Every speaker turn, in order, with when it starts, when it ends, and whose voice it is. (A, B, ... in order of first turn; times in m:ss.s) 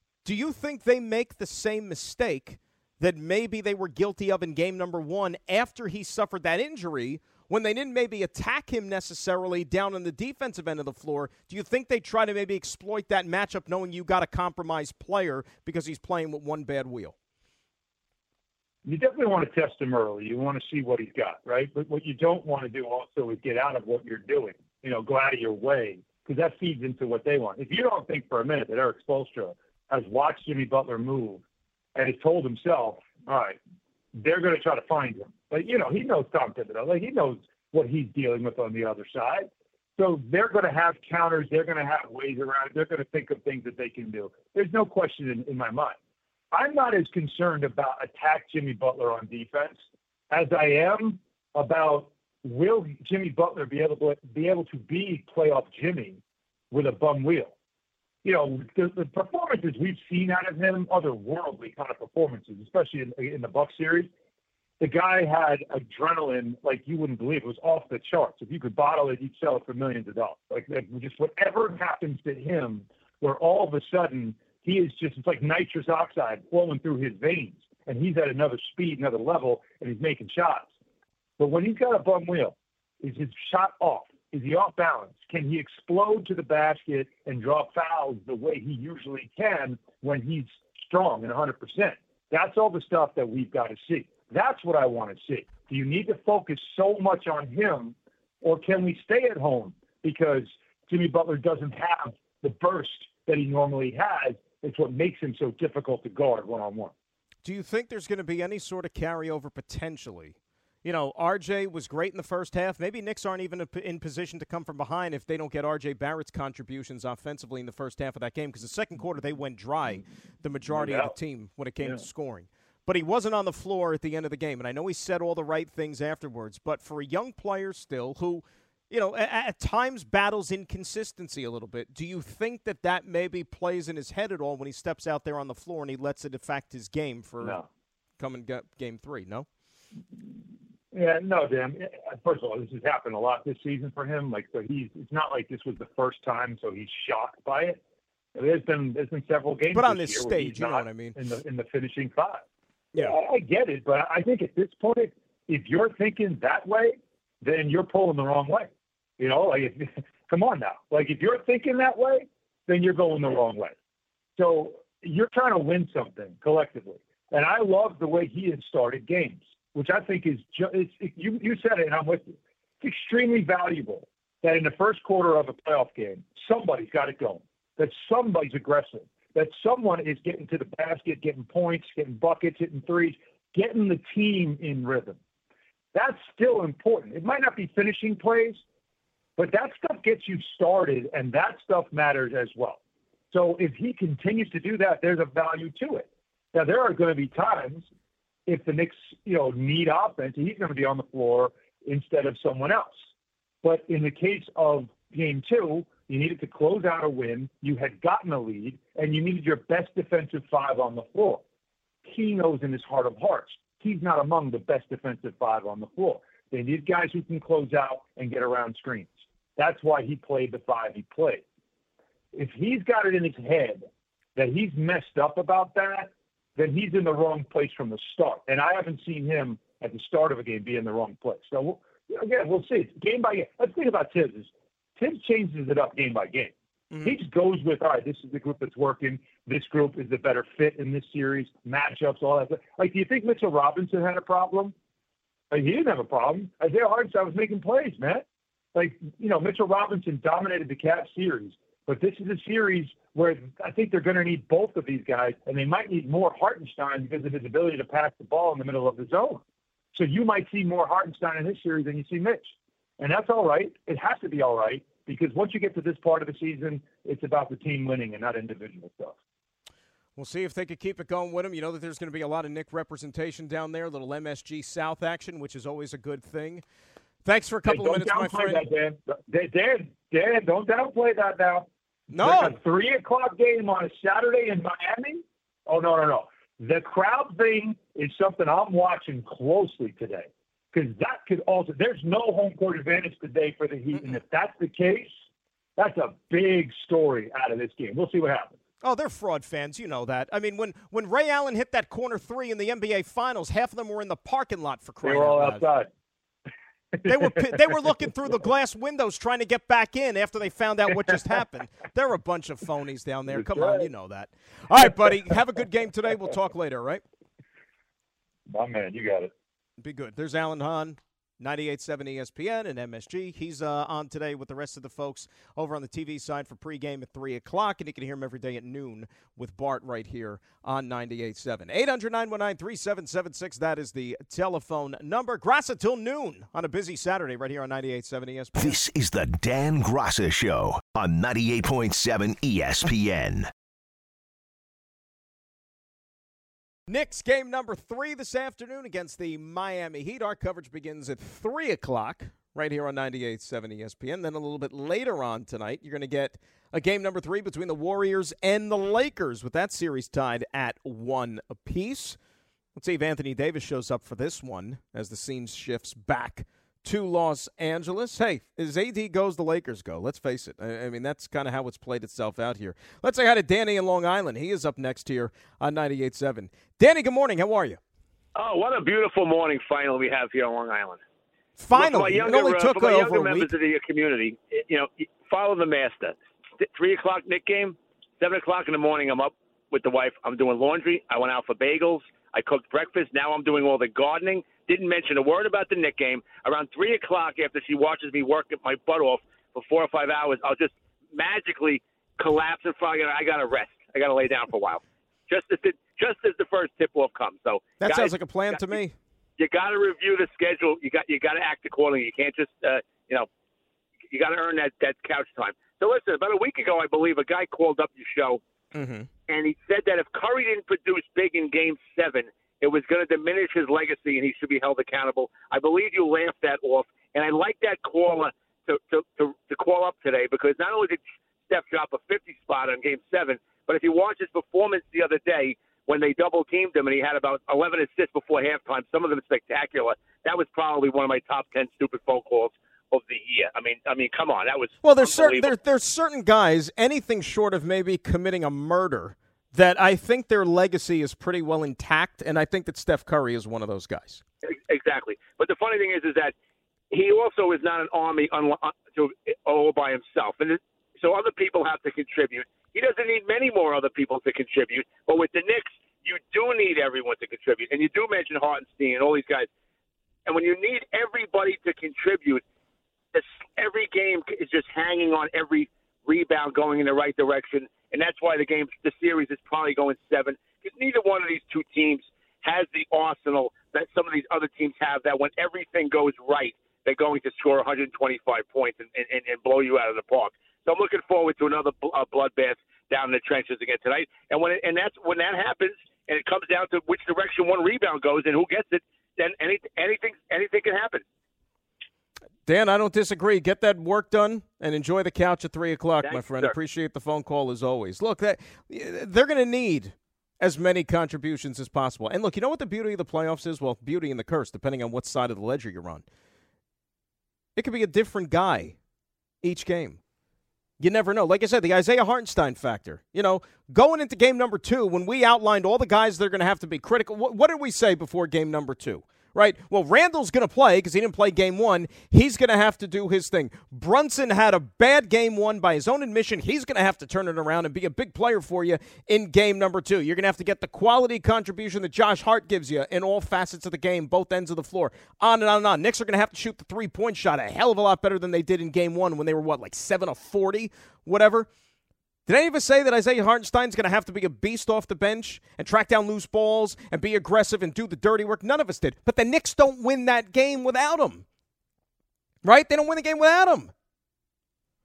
0:00.2-0:17.2 A
0:18.8-0:31.4 B
0:32.0-0:33.6 B
0:34.1-0:46.0 B
0:46.5-0:56.2 B
0:56.7-0:57.5 B
0:58.2-1:04.1 B
1:04.8-1:20.7 B
1:21.4-1:46.9 B
1:47.4-2:17.6 A
2:00.7-2:01.1 B
2:17.4-2:17.7 B
2:18.2-2:19.5 A
2:20.9-2:27.8 B
2:28.4-2:32.4 B
2:29.7-2:31.2 A
2:33.0-2:43.8 B
2:44.4-3:05.2 B
3:05.9-3:08.6 B
3:09.4-3:12.8 B
3:13.3-3:17.9 B
3:18.5-3:23.0 B
3:23.6-3:31.4 B
3:32.0-3:41.4 B
3:42.3-3:43.8 B
3:44.4-4:04.7 B
3:56.9-3:57.2 A
4:05.5-4:29.2 B
4:30.2-4:36.6 A
4:37.2-4:38.6 A
4:37.7-4:55.1 B
4:42.1-4:42.6 A
4:53.9-4:54.2 A
4:55.8-4:58.6 B
4:58.8-5:05.7 A
5:05.0-5:05.9 B
5:07.0-5:07.6 B
5:07.0-5:17.0 A
5:13.3-5:13.9 B
5:18.5-5:19.3 B
5:19.8-5:38.8 A
5:38.6-5:43.5 C
5:46.9-6:02.2 A
6:02.8-6:17.8 A
6:18.4-6:21.0 D
6:21.6-6:23.5 A
6:21.7-6:48.8 D
6:47.8-6:49.0 A
6:49.4-6:53.3 D
6:54.1-6:58.4 D
6:58.7-6:59.1 A
6:59.3-7:25.5 D
7:24.8-7:34.2 A
7:34.5-7:36.3 D
7:36.9-7:49.5 D
7:50.3-7:52.4 D
7:53.1-8:21.0 D
8:22.5-8:36.0 A
8:26.0-8:26.5 D
8:37.6-8:38.8 A
8:39.4-8:40.0 A
8:40.8-9:11.5 A
9:12.3-9:21.3 A
9:22.4-9:23.7 A